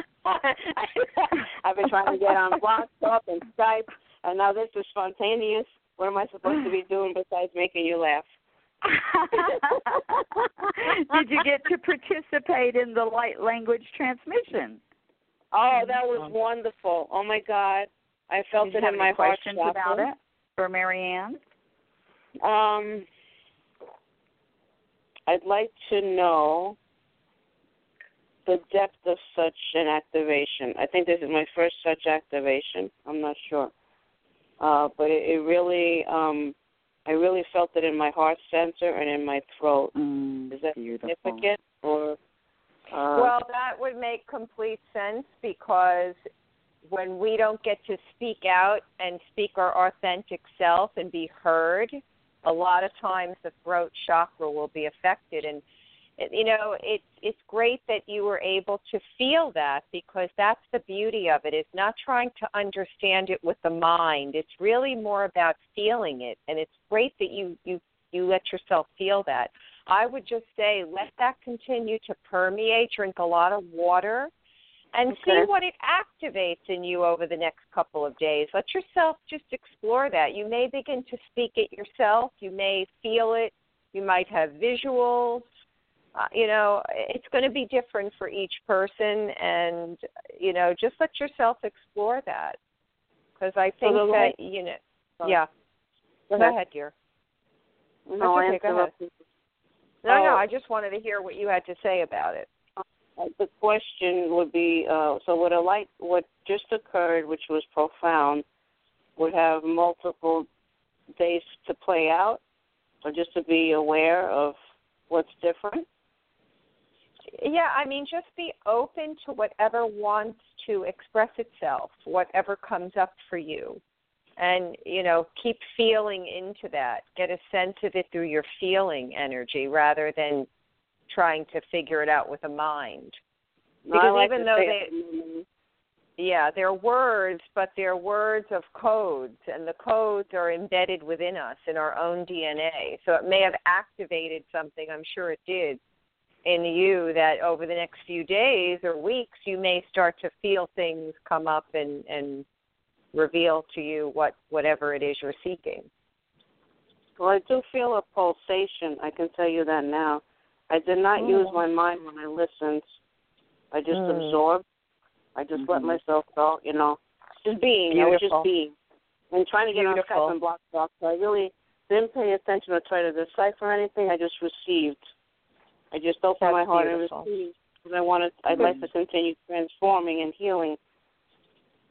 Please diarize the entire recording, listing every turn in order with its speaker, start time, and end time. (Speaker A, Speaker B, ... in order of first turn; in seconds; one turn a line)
Speaker A: 0.6-8.3
Speaker B: 8.8-14.8
Speaker A: 15.5-20.1
Speaker B: 18.6-21.4
Speaker A: 22.4-23.1
Speaker A: 25.3-26.8
Speaker A: 28.4-33.7
Speaker A: 34.6-36.5
Speaker A: 37.0-39.9
Speaker B: 39.9-41.5
Speaker A: 40.5-42.2
Speaker A: 42.9-43.3
Speaker C: 43.1-46.2
Speaker C: 46.9-55.6
Speaker C: 56.2-74.3
Speaker C: 74.9-85.4
Speaker A: 75.1-75.5
Speaker C: 86.1-92.6
Speaker C: 93.4-95.5
Speaker A: 93.8-94.3
Speaker A: 96.3-96.5
Speaker C: 96.4-96.9
Speaker A: 98.1-99.1
Speaker C: 98.2-98.9
Speaker C: 100.0-102.5
Speaker A: 100.1-100.4
Speaker A: 103.2-108.4
Speaker A: 109.2-110.5
Speaker A: 111.2-112.4
Speaker A: 113.0-114.5
Speaker A: 115.1-115.8
Speaker C: 117.4-123.8
Speaker C: 124.4-130.5
Speaker C: 131.1-133.2
Speaker A: 133.8-135.4
Speaker C: 133.9-134.9
Speaker C: 136.2-145.8
Speaker C: 146.4-152.4
Speaker C: 153.1-155.9
Speaker A: 157.2-162.8
Speaker C: 161.2-161.6
Speaker A: 163.7-164.6
Speaker C: 163.9-164.4
Speaker A: 165.3-168.7
Speaker B: 165.5-166.0
Speaker C: 167.9-168.5
Speaker A: 169.3-175.0
Speaker C: 169.7-170.3
Speaker A: 175.9-180.8
Speaker C: 176.4-177.3
Speaker B: 178.5-178.8